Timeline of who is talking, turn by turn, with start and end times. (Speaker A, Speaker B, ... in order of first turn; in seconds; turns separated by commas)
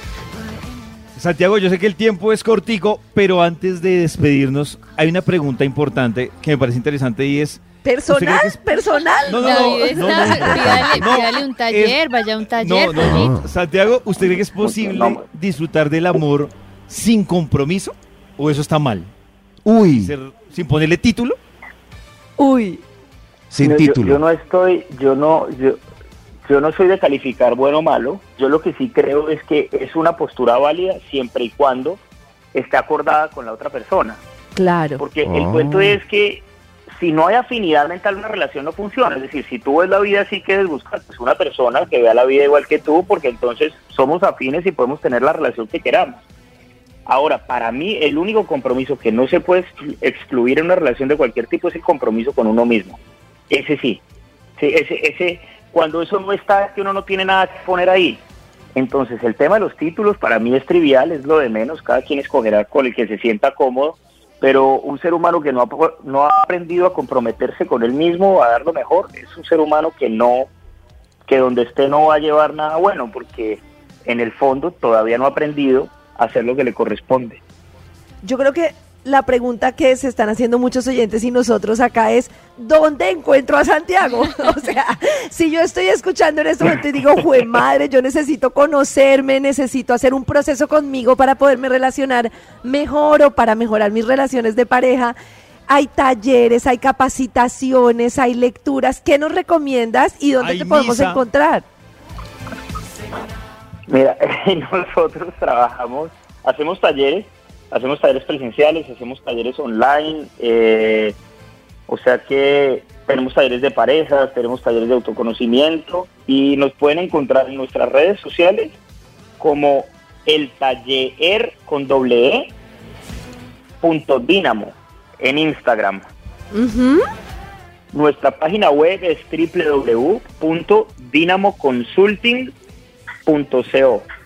Speaker A: 1.1-8.6, Speaker B: 7.8-10.2, Speaker A: 9.2-12.0, Speaker C: 9.4-13.4, Speaker D: 10.2-11.1, Speaker A: 12.6-19.1, Speaker D: 13.0-13.5, Speaker E: 14.7-15.2, Speaker D: 19.6-20.1, Speaker A: 20.0-21.4, Speaker B: 22.4-22.8, Speaker D: 23.5-24.2, Speaker E: 23.6-25.8, Speaker E: 26.4-32.0, Speaker E: 32.5-34.2, Speaker B: 34.5-35.0, Speaker E: 35.0-36.4, Speaker D: 35.2-36.0, Speaker E: 37.0-46.2, Speaker E: 47.1-53.0, Speaker E: 53.5-54.0, Speaker E: 54.6-58.2, Speaker E: 58.7-70.5, Speaker E: 71.3-77.4, Speaker B: 78.2-95.1, Speaker B: 95.7-101.7, Speaker A: 100.4-101.2, Speaker E: 103.9-111.2, Speaker E: 111.9-118.8, Speaker E: 119.4-122.5, Speaker E: 123.8-126.1, Speaker B: 126.5-127.1, Speaker E: 127.9-132.5, Speaker E: 133.2-134.1